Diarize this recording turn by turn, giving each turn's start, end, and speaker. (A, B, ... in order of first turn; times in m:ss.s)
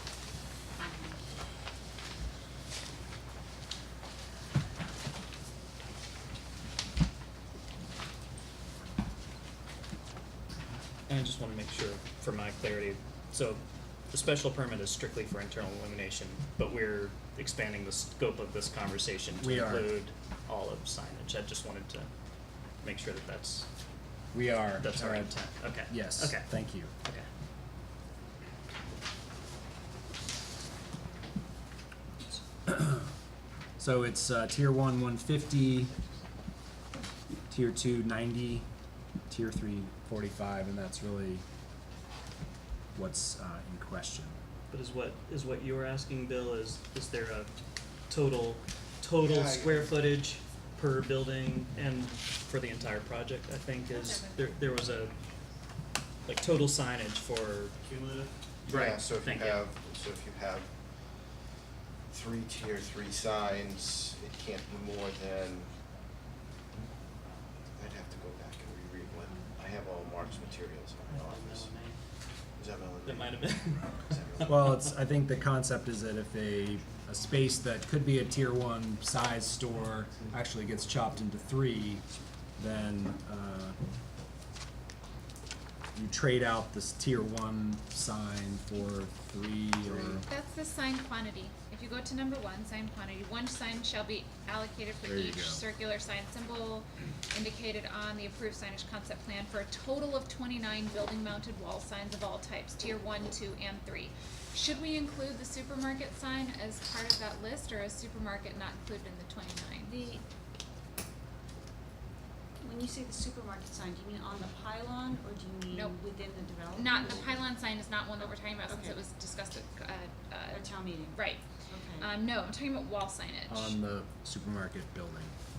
0:00.8-0:01.3 A
0:11.1-0:22.1 B
0:19.4-0:19.9 C
0:22.8-0:23.7 B
0:24.3-0:25.4 C
0:24.8-0:26.5 B
0:25.9-0:26.9 C
0:32.7-0:33.1 C
0:33.8-0:35.9 C
0:37.5-0:38.7 C
0:39.3-0:41.4 C
0:43.0-0:44.4 C
0:44.7-0:47.6 B
0:48.1-0:55.1 B
0:49.2-0:50.1 D
0:53.9-0:54.4 E
0:56.3-0:59.6 B
0:58.7-1:01.3 D
1:02.1-1:05.8 D
1:07.8-1:11.7 D
1:11.1-1:12.0 B
1:12.5-1:14.7 D
1:13.0-1:14.9 B
1:14.4-1:23.8 C
1:25.9-1:30.3 C
1:30.3-1:50.0 E
1:35.0-1:35.6 C
1:49.8-1:50.2 A
1:52.6-1:57.4 A
1:55.7-1:56.0 E
1:56.7-2:01.4 E
1:58.2-1:59.0 A
2:00.5-2:02.1 A
2:02.0-2:03.8 E
2:03.5-2:05.4 C